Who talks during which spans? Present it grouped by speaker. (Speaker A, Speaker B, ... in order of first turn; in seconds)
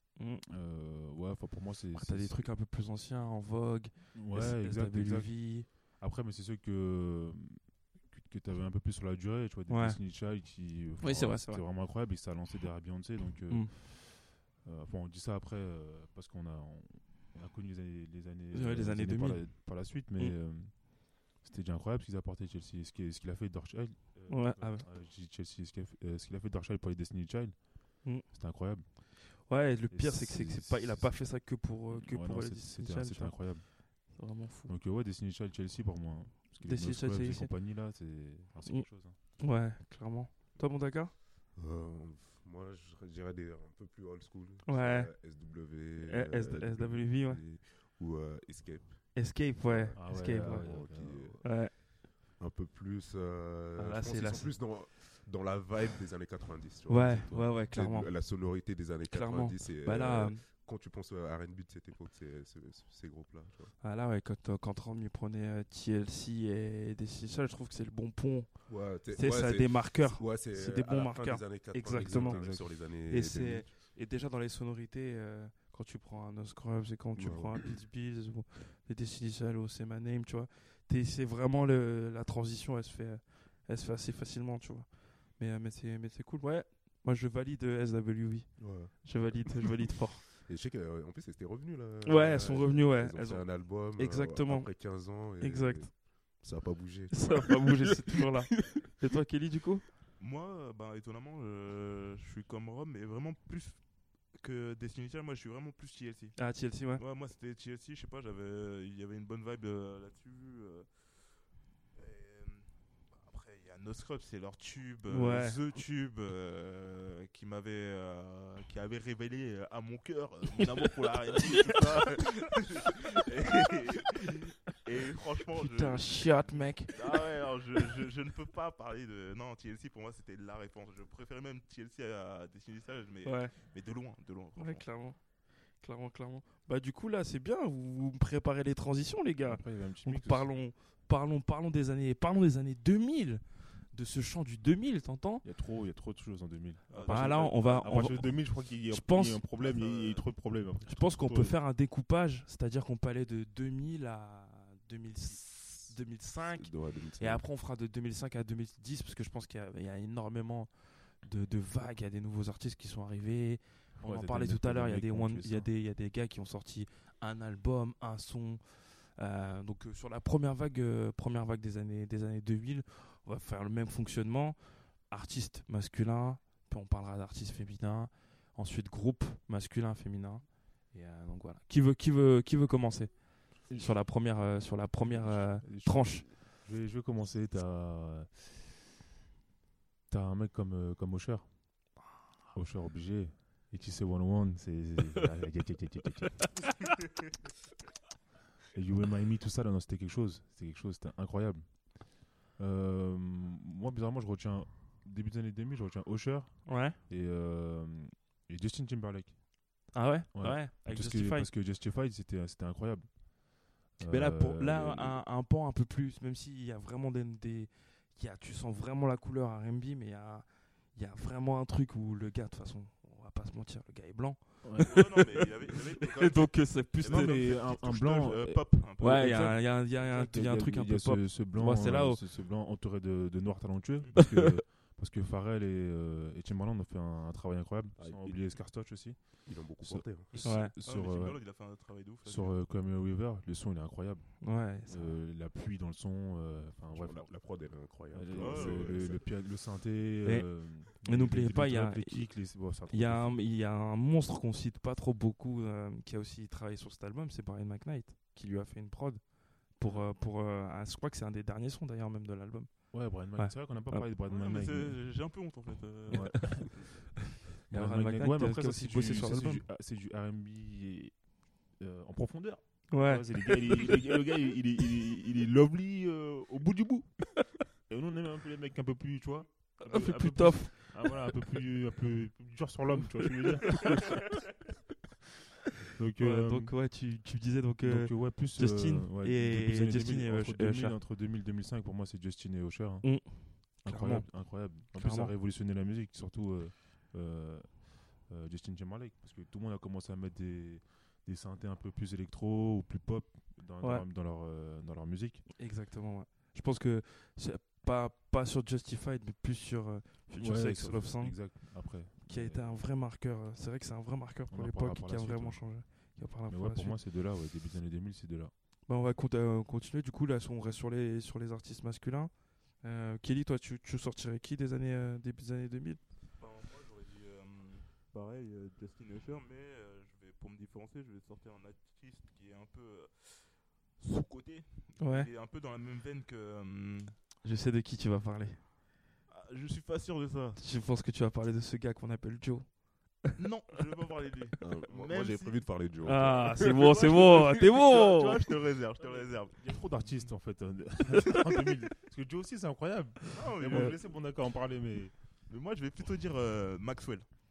Speaker A: 0.1-0.4, 1.9-5.7, 9.7-10.0, 11.0-11.6, 18.5-20.4, 24.3-24.9, 29.4-34.7, 36.6-37.5, 38.6-41.1, 44.6-45.1, 46.0-47.4, 49.1-51.7, 53.8-54.5, 56.9-58.3, 59.1-60.4, 63.8-90.2, 92.0-95.9, 97.1-99.8, 106.4-107.0, 115.1-115.6, 121.4-121.8, 125.5-127.1, 133.2-133.5, 134.6-145.4, 147.0-149.4, 150.9-186.3, 206.7-207.0, 209.9-211.5, 214.0-225.5, 226.0-227.4, 229.0-232.2, 234.2-234.6, 240.4-240.7, 244.4-245.2, 250.2-264.1, 267.7-269.6, 272.9-273.9, 279.8-281.1, 283.8-284.1, 286.2-291.0, 293.0-295.3, 303.8-304.1, 305.6-317.0, 318.9-326.0, 335.0-335.3, 337.4-338.6, 340.6-343.3, 346.0-348.4
Speaker B: 0.5-2.5, 4.1-39.2, 49.9-51.4, 71.9-72.7, 139.5-140.5, 145.4-151.6, 164.0-165.7, 183.7-184.0, 185.0-188.7, 190.1-191.9, 192.5-196.7, 198.7-215.2, 224.6-225.0, 227.0-253.4, 262.9-265.1, 266.1-284.3, 285.9-286.8, 287.8-305.5, 310.4-312.7, 314.5-318.5, 349.5-355.1
Speaker C: 41.5-63.7, 68.7-73.7, 77.2-77.7, 88.6-89.5, 90.4-97.9, 156.5-157.4, 237.9-240.4, 246.9-249.3, 344.6-347.1
Speaker D: 100.2-103.8, 104.3-110.9, 111.9-134.8, 146.9-148.4, 149.6-150.2, 224.8-229.6, 240.3-242.6, 248.4-249.1, 264.3-267.1, 326.4-337.2, 339.3-340.6, 343.4-345.7, 346.6-350.3, 353.3-354.1, 355.5-357.2